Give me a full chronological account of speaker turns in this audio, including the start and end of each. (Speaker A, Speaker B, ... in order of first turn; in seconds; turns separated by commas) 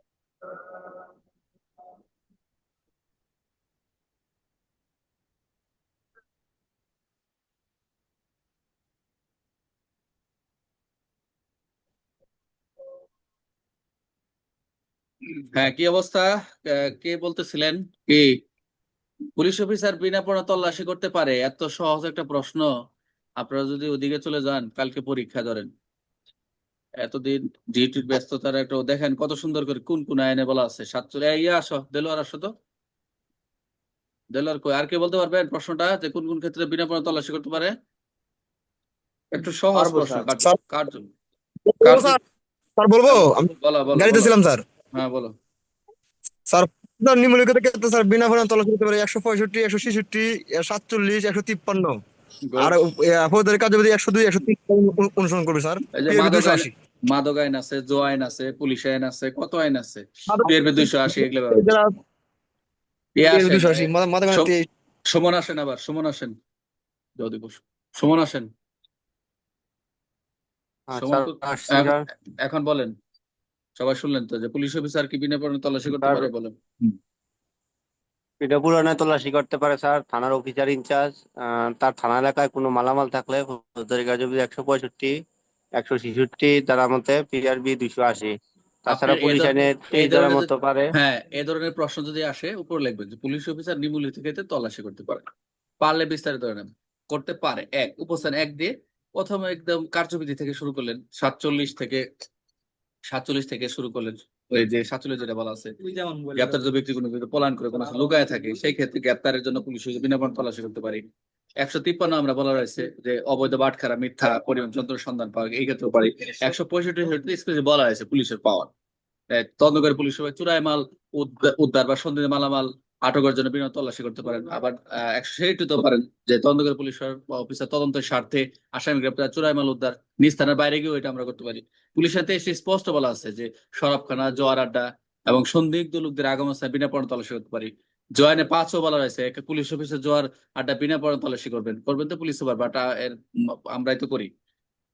Speaker A: 15.5-18.3, Speaker A: 19.4-22.7, Speaker A: 23.4-25.7, Speaker A: 27.0-32.5, Speaker A: 34.3-37.7, Speaker A: 39.3-41.1, Speaker B: 39.8-40.3, Speaker C: 41.7-42.2, Speaker A: 41.8-42.2, Speaker C: 42.8-44.6, Speaker A: 43.1-44.3, Speaker A: 44.9-45.3, Speaker C: 46.5-52.0, Speaker A: 52.5-52.8, Speaker C: 52.6-56.7, Speaker A: 56.0-61.7, Speaker C: 60.3-62.0, Speaker A: 63.2-64.5, Speaker C: 63.3-64.6, Speaker A: 65.1-66.3, Speaker A: 67.2-68.5, Speaker B: 70.9-72.0, Speaker A: 71.0-72.9, Speaker A: 73.8-76.9, Speaker B: 76.0-76.3, Speaker B: 78.4-85.1, Speaker B: 85.8-88.3, Speaker B: 88.9-90.9, Speaker A: 88.9-95.2, Speaker A: 95.8-102.0, Speaker A: 103.1-105.7, Speaker A: 106.3-111.0, Speaker A: 111.6-118.7, Speaker A: 119.3-143.2, Speaker A: 143.7-144.3